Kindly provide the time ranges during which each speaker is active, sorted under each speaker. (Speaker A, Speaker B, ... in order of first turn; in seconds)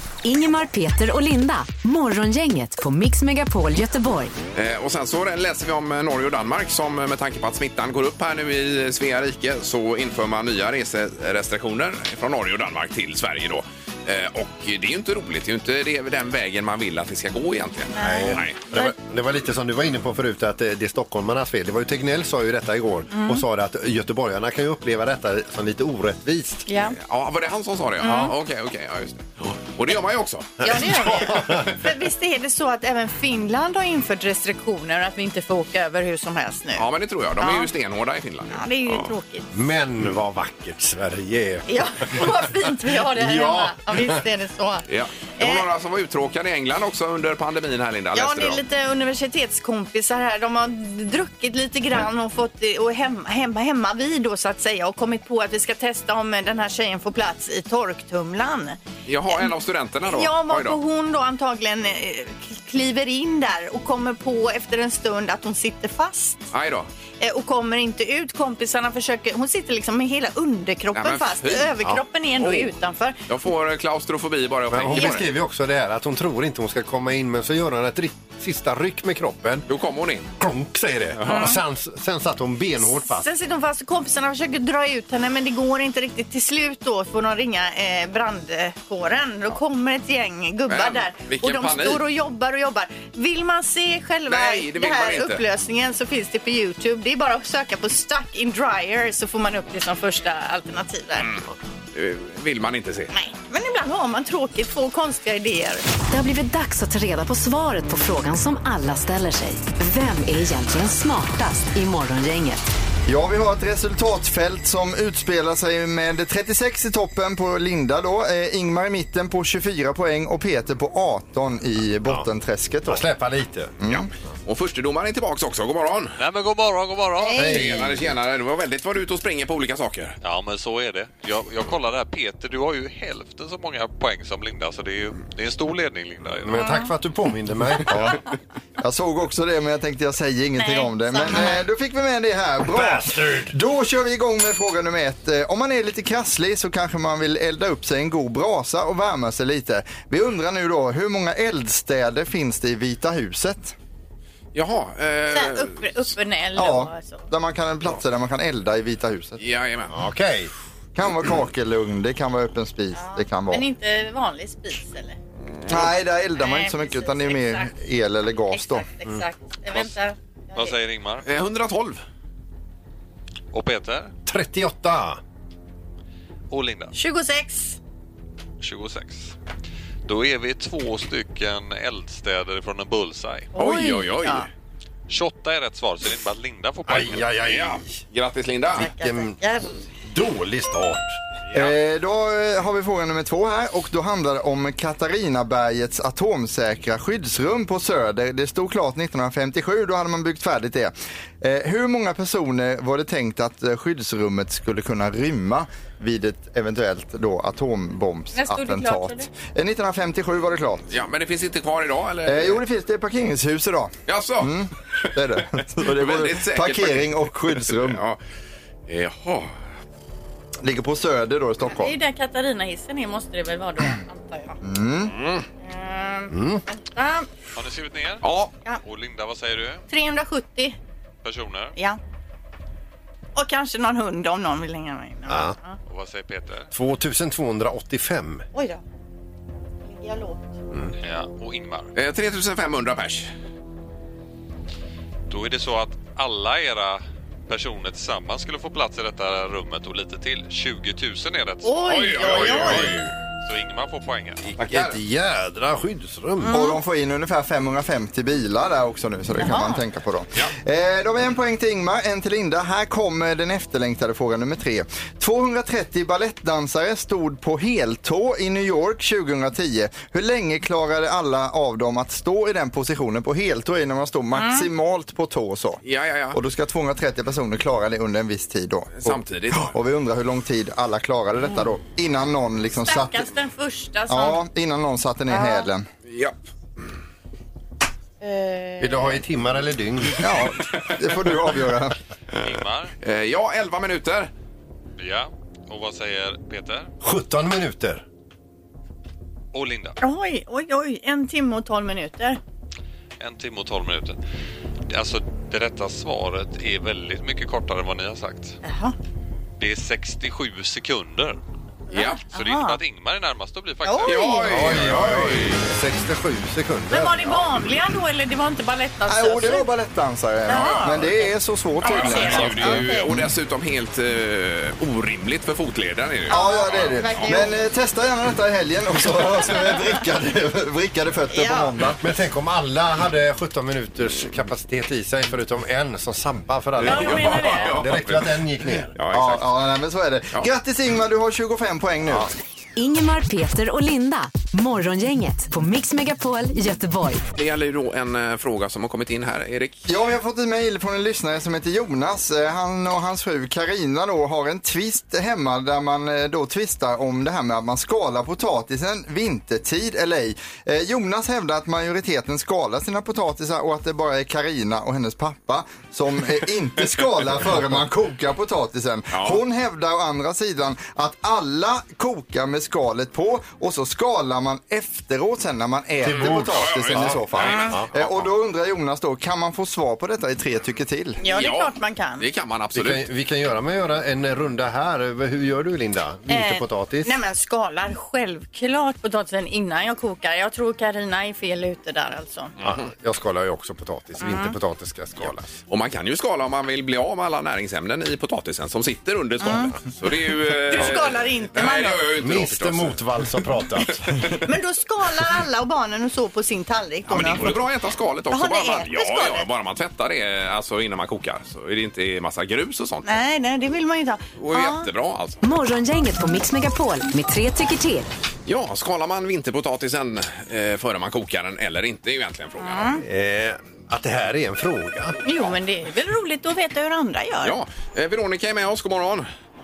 Speaker A: 0.2-4.3, 106.1-112.6, 342.8-347.2, 415.4-418.1
Speaker B: 4.5-18.6, 26.9-31.7, 36.8-39.1, 44.9-48.6, 59.0-60.8, 66.5-66.9, 70.9-71.7, 73.3-75.2, 79.7-80.3, 81.2-81.5, 90.7-92.0, 94.3-95.4, 101.2-103.1, 123.9-126.2, 127.3-130.1, 154.5-155.9, 159.4-160.0, 171.2-172.0, 183.6-184.5, 187.4-188.9, 210.9-212.6, 214.1-214.5, 215.8-218.2, 218.9-219.5, 225.1-225.4, 228.2-228.5, 241.9-243.3, 251.9-253.1, 254.6-255.0, 275.8-276.4, 278.9-279.7, 286.1-286.8, 293.0-294.3, 311.9-312.2, 314.0-315.6, 320.5-321.1, 321.8-327.4, 336.8-338.4, 338.9-339.4, 347.3-349.9, 369.1-369.4, 376.0-378.3, 381.3-383.1, 395.7-403.0, 407.1-413.2, 414.4-415.4, 418.4-422.9, 427.4-429.3
Speaker C: 17.9-18.9, 23.1-23.4, 26.7-26.9, 28.0-28.3, 30.6-36.9, 37.4-37.7, 38.5-39.5, 41.7-44.9, 45.4-45.6, 48.1-58.8, 60.0-66.5, 67.2-73.2, 74.9-75.2, 81.2-81.5, 82.8-101.3, 103.1-105.8, 127.2-127.8, 136.6-136.9, 140.6-141.6, 155.3-157.2, 162.9-165.2, 166.4-167.7, 168.5-170.8, 176.9-177.8, 183.5-184.5, 188.8-189.7, 208.3-209.3, 221.6-224.6, 225.6-227.3, 229.9-230.8, 233.3-235.8, 238.5-238.8, 239.8-240.6, 251.6-252.9, 256.4-256.8, 259.4-259.8, 274.3-274.7, 282.9-284.4, 285.3-285.7, 288.2-289.2, 300.0-302.4, 308.6-308.9, 311.9-312.8, 313.8-314.4, 316.9-319.6, 320.5-321.3, 321.8-323.1, 326.3-327.6, 331.3-331.7, 336.8-337.7, 381.2-382.2, 386.3-392.5, 394.2-394.6, 399.4-399.7, 400.6-402.0, 404.4-407.6, 408.3-409.4, 413.0-414.9, 422.6-423.0, 425.2-427.6
Speaker D: 18.0-26.6, 30.7-31.7, 39.5-42.3, 43.0-44.2, 74.7-79.7, 80.4-83.2, 122.8-123.8, 127.3-128.1, 136.4-138.2, 142.7-143.5, 159.9-160.5, 174.2-175.2, 186.9-188.0, 189.0-189.4, 190.0-191.2, 226.3-226.6, 235.3-235.5, 236.7-238.4, 254.5-256.6, 288.8-290.4, 297.0-298.0, 314.5-317.6, 332.0-338.9, 376.0-377.9, 382.7-387.1, 392.6-395.5, 402.2-404.2, 423.0-425.2
Speaker E: 113.1-123.0, 123.8-124.1, 137.9-138.2, 138.8-153.7, 156.6-159.4, 160.9-163.6, 165.7-168.8, 191.5-210.9, 212.2-218.0, 220.6-221.9, 224.6-225.1, 256.5-275.8, 276.3-283.3, 284.1-285.9, 290.2-292.0, 319.1-323.3, 326.3-332.0, 339.1-342.3, 349.9-381.2
Speaker F: 126.2-127.5, 130.2-136.7, 170.5-171.2, 173.5-174.1, 176.5-176.9, 178.6-179.3, 180.1-183.5, 185.1-187.3, 227.6-228.2, 228.8-229.8, 231.2-231.7, 235.9-236.7, 241.0-241.9, 245.3-254.4, 292.4-292.9, 295.0-296.9, 299.5-300.0, 303.2-304.2, 304.9-308.6, 309.6-311.4, 312.3-314.9